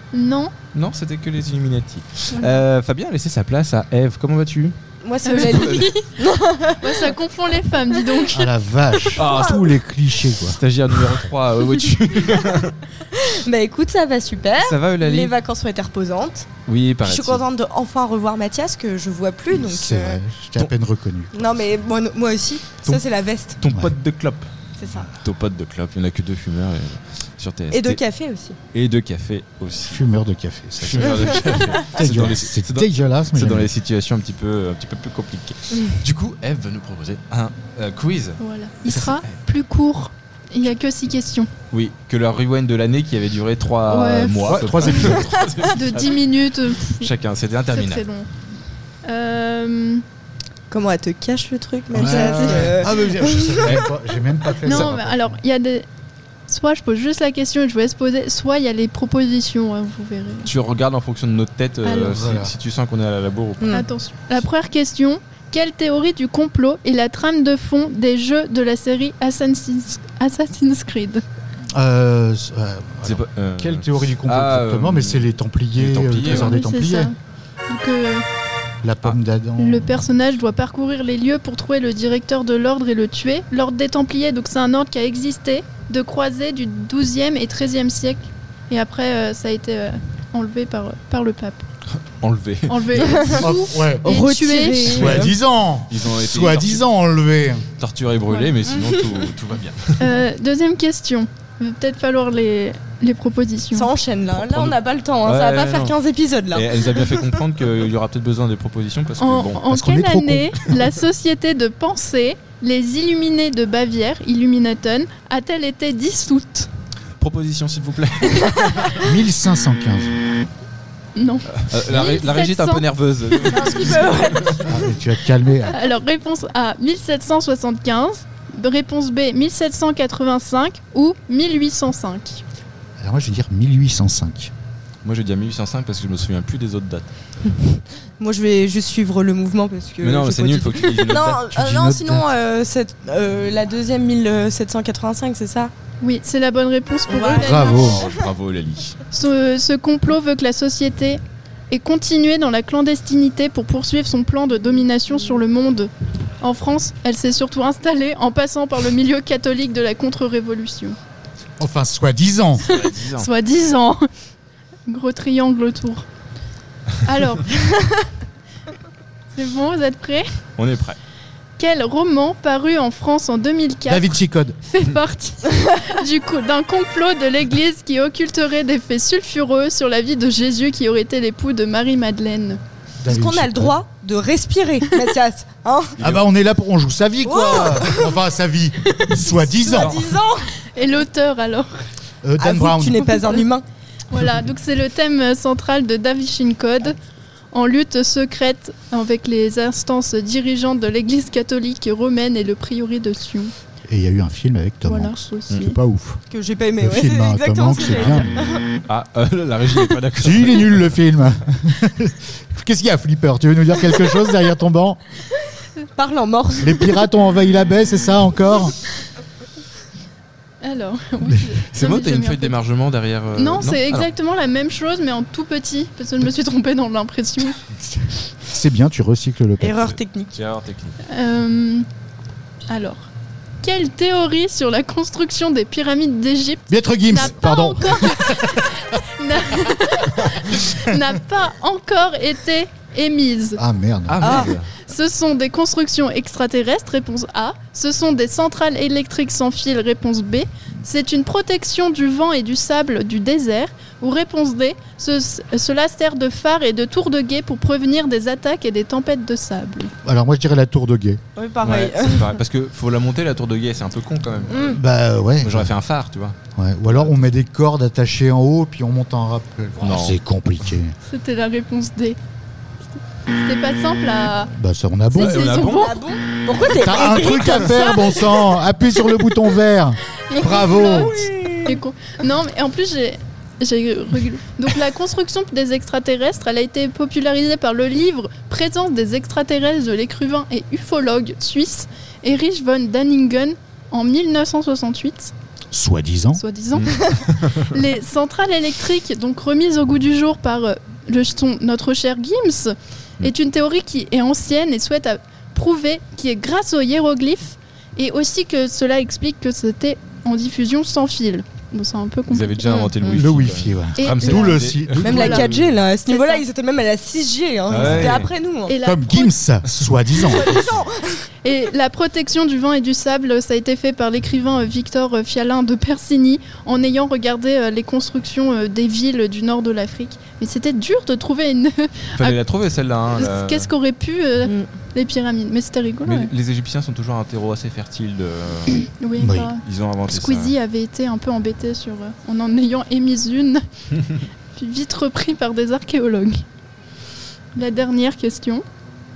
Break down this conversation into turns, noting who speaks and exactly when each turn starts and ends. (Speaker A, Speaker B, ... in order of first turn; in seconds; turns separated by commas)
Speaker A: 0.1-0.5, Speaker B: 0.7-4.8, Speaker A: 2.3-2.6, Speaker C: 5.0-7.1, Speaker A: 5.2-6.0, Speaker B: 5.4-5.9, Speaker A: 6.8-8.5, Speaker D: 8.3-10.6, Speaker C: 9.2-9.4, Speaker B: 9.2-9.7, Speaker B: 10.6-12.8, Speaker C: 13.2-16.5, Speaker B: 14.6-15.3, Speaker B: 16.6-17.4, Speaker C: 17.0-20.2, Speaker D: 19.5-21.7, Speaker C: 21.3-23.6, Speaker B: 23.6-24.5, Speaker D: 23.7-23.9, Speaker C: 24.8-25.1, Speaker B: 25.1-28.0, Speaker C: 27.7-28.6, Speaker B: 28.7-30.0, Speaker D: 29.9-33.7, Speaker B: 30.8-39.4, Speaker C: 35.7-36.0, Speaker A: 38.4-41.5, Speaker B: 41.7-46.2, Speaker A: 43.9-44.9, Speaker D: 44.4-45.5, Speaker A: 45.6-47.1, Speaker B: 46.7-48.0, Speaker A: 47.7-48.3, Speaker A: 49.0-50.0, Speaker C: 50.7-53.9, Speaker D: 51.9-55.4, Speaker A: 52.0-52.7, Speaker B: 52.0-52.6, Speaker A: 54.6-55.8, Speaker A: 56.5-60.5, Speaker B: 60.4-63.7, Speaker A: 61.8-62.2, Speaker D: 62.0-62.5, Speaker C: 63.6-63.9, Speaker A: 63.7-71.2, Speaker D: 71.7-77.1, Speaker B: 73.0-76.5, Speaker A: 76.2-77.1, Speaker A: 77.7-78.2, Speaker D: 78.8-79.9, Speaker A: 79.6-91.6, Speaker B: 92.0-93.4, Speaker A: 92.7-95.1, Speaker C: 93.0-93.5, Speaker D: 93.4-94.2, Speaker C: 94.0-95.3, Speaker D: 94.9-97.7, Speaker B: 95.9-96.8, Speaker B: 97.8-100.1, Speaker A: 98.3-98.6, Speaker C: 98.7-99.2, Speaker A: 100.0-103.9, Speaker C: 103.7-107.4, Speaker B: 104.3-109.6, Speaker A: 109.2-116.7, Speaker D: 109.7-110.6, Speaker B: 117.2-119.1, Speaker D: 118.9-120.2, Speaker A: 121.2-123.8, Speaker B: 121.6-124.7, Speaker C: 123.5-125.0, Speaker D: 124.6-125.8, Speaker A: 125.7-132.4, Speaker D: 133.0-134.5, Speaker B: 135.0-137.1, Speaker C: 137.5-145.7, Speaker B: 140.0-141.4, Speaker D: 141.5-142.2, Speaker A: 146.0-148.0, Speaker C: 147.1-148.2, Speaker D: 147.3-148.0, Speaker B: 147.7-149.0, Speaker A: 149.1-161.0, Speaker D: 161.6-162.7, Speaker B: 162.6-163.3, Speaker A: 162.7-164.1, Speaker A: 164.8-166.1, Speaker A: 167.0-168.0, Speaker A: 169.3-170.3, Speaker B: 170.6-171.0, Speaker A: 171.6-182.6, Speaker D: 173.9-174.6, Speaker D: 183.0-183.8, Speaker C: 183.1-185.9, Speaker B: 186.0-186.2, Speaker D: 186.0-190.0, Speaker C: 187.2-188.2, Speaker C: 189.2-190.5, Speaker B: 189.7-190.1, Speaker A: 190.7-191.8, Speaker D: 192.2-193.2, Speaker C: 192.4-193.6, Speaker A: 192.9-193.5, Speaker A: 194.1-196.9, Speaker A: 197.5-203.5, Speaker D: 203.9-206.2, Speaker A: 204.8-205.8, Speaker C: 206.3-208.8, Speaker D: 206.8-208.3, Speaker B: 207.8-210.9, Speaker D: 210.2-215.0, Speaker C: 215.9-217.0, Speaker D: 216.6-218.8, Speaker A: 220.6-222.6, Speaker B: 221.7-224.1, Speaker A: 223.3-227.6, Speaker D: 228.3-229.9, Speaker C: 229.6-230.4, Speaker B: 230.3-230.9, Speaker A: 231.1-231.8, Speaker A: 232.7-233.1, Speaker A: 233.6-243.6, Speaker D: 236.7-238.9, Speaker D: 243.6-244.5, Speaker B: 244.1-244.7, Speaker C: 244.2-244.5, Speaker A: 244.8-259.9, Speaker D: 260.0-261.2, Speaker C: 261.4-262.4, Speaker B: 261.6-264.8, Speaker C: 264.5-264.8, Speaker D: 264.6-265.7, Speaker B: 265.4-267.3, Speaker D: 266.6-270.9, Speaker B: 269.8-270.2, Speaker A: 271.1-272.2, Speaker A: 273.3-274.5, Speaker D: 274.5-275.6, Speaker A: 275.1-276.0, Speaker B: 275.1-275.9, Speaker C: 275.5-278.3, Speaker D: 276.7-281.2, Speaker B: 276.9-277.6, Speaker A: 280.3-295.3, Speaker C: 280.4-281.8, Speaker D: 295.7-296.4, Speaker A: 296.3-313.1, Speaker B: 312.3-315.8, Speaker D: 313.0-315.1, Speaker A: 314.0-315.5, Speaker C: 315.0-318.7, Speaker A: 316.0-316.4, Speaker B: 317.7-318.3, Speaker D: 317.8-318.1, Speaker A: 318.7-319.4, Speaker D: 318.8-320.7, Speaker C: 320.2-321.2, Speaker B: 320.5-320.8, Speaker A: 321.4-332.4, Speaker B: 332.1-333.7, Speaker A: 333.1-336.3, Speaker B: 336.0-338.9, Speaker A: 338.9-343.6, Speaker D: 339.2-339.5, Speaker B: 339.6-340.5, Speaker A: 344.5-346.4, Speaker A: 347.5-348.6